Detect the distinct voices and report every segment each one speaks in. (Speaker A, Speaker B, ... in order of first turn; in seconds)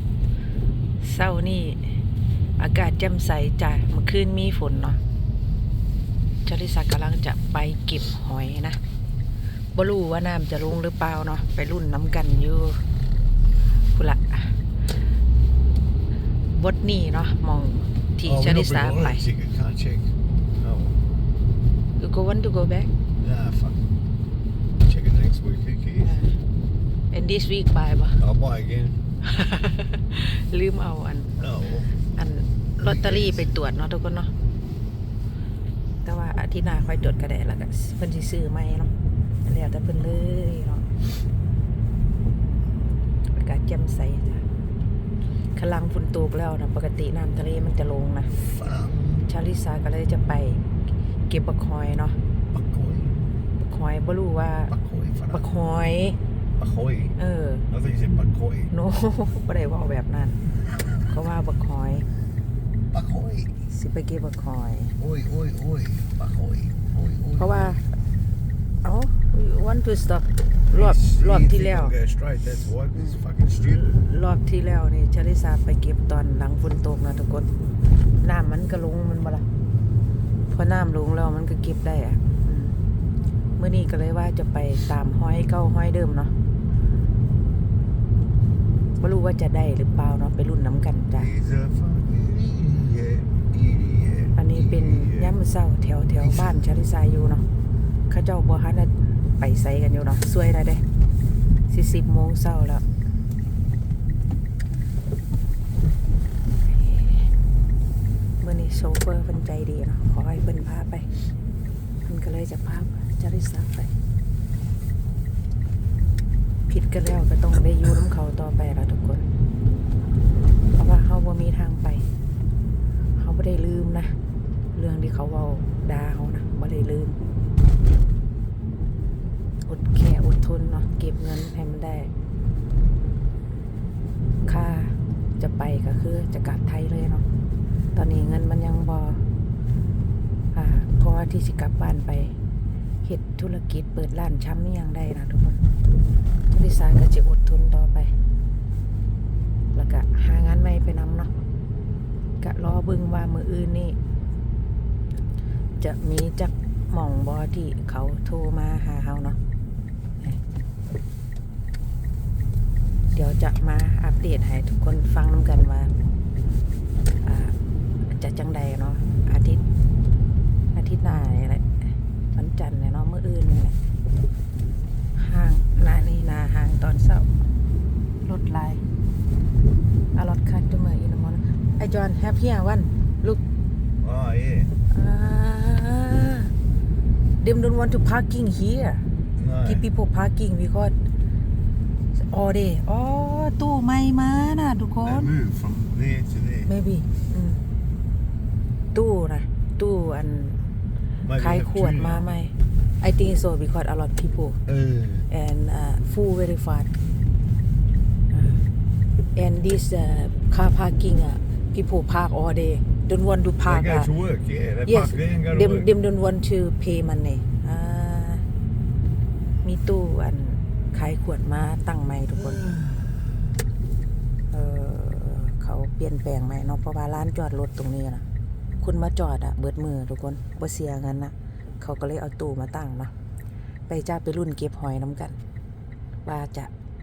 Speaker A: 1.0-2.0, 2.6-5.0, 6.4-8.8, 9.7-12.8, 13.9-14.6, 16.5-19.2, 22.0-22.9, 26.0-26.4, 27.1-28.2, 29.2-31.4, 32.1-34.3, 36.0-38.9, 39.4-40.9, 43.3-44.4, 45.5-48.3, 49.2-50.6, 51.3-52.2, 53.6-54.7, 55.3-56.2, 57.2-57.6, 58.7-60.4, 61.1-62.0, 63.7-64.9, 67.4-67.9, 68.8-72.0, 73.0-77.5, 78.2-79.5, 80.5-82.7, 83.6-86.3, 89.0-91.3, 94.3-97.4, 98.1-100.8, 101.7-102.8, 106.7-107.3, 108.4-111.1, 112.1-113.9, 116.7-119.2, 120.7-122.0, 123.2-124.1, 124.7-127.2, 129.7-132.1, 134.4-137.2, 137.9-139.2, 140.5-142.3, 143.0-145.6, 146.5-148.1, 149.7-151.3, 152.4-154.0, 155.8-159.4, 163.1-165.9, 167.2-169.6, 170.7-171.7, 172.3-173.8, 175.2-177.3, 178.2-178.8, 180.1-183.4, 184.9-186.5, 187.4-189.0, 189.6-190.9, 192.2-195.3, 196.7-197.6, 198.9-200.6, 201.3-204.6, 205.3-206.9, 208.3-208.6, 209.3-214.1, 214.8-218.4, 219.6-222.6, 224.5-228.2, 228.8-233.1, 233.9-235.4, 236.2-236.7
Speaker B: 18.2-21.0, 23.2-23.8, 24.8-26.1, 28.2-29.0, 31.4-31.9, 32.8-33.5, 48.3-49.3, 52.5-53.2, 54.7-55.4, 56.6-57.1, 57.7-58.7, 62.9-63.6, 65.0-67.8, 70.7-73.8, 91.2-95.3, 96.2-96.7, 184.0-184.7, 189.3-189.8, 195.0-196.7, 201.2-202.2, 204.7-205.3, 213.6-215.9, 222.6-223.0